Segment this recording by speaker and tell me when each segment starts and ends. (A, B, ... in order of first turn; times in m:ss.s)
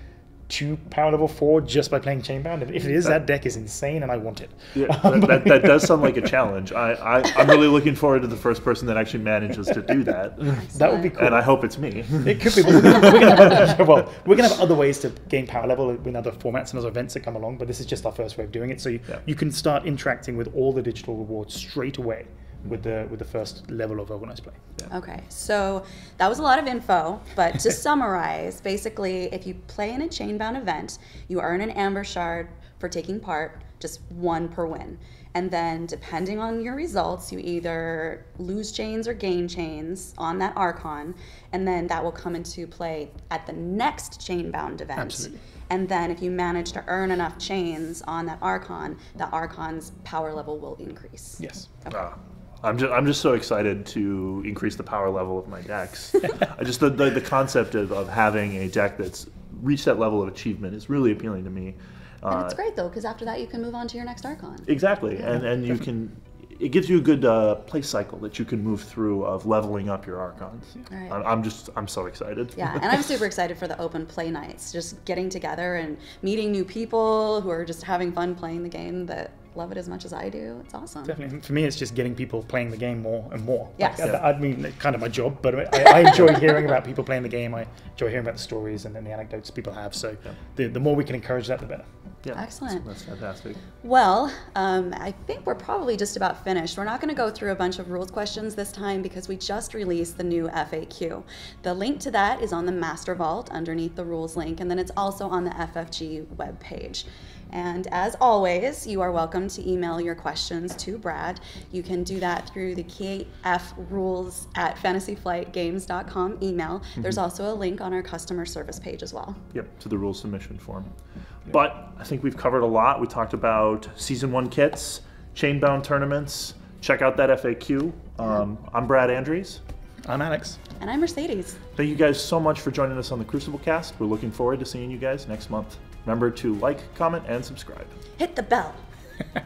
0:00.5-0:06.3 A
0:04.7-0:13.3 B
0:10.5-0:11.1 C
0:10.7-0:11.5 A
0:12.2-0:24.6 A
0:24.9-0:52.1 C
0:45.0-0:45.4 A
0:51.4-0:51.7 A
0:51.9-1:02.6 B
1:02.3-1:04.7 C
1:04.6-1:12.9 B
1:10.9-1:11.2 C
1:12.6-1:21.2 C
1:21.0-1:31.9 A
1:23.8-1:24.1 C
1:32.2-1:33.6 B
1:32.3-1:32.8 C
1:33.8-1:59.4 C
1:59.5-2:00.9 B
2:01.5-2:09.6 B
2:10.0-2:10.6 A
2:10.8-2:11.6 C
2:11.8-2:18.0 B
2:18.2-2:18.8 C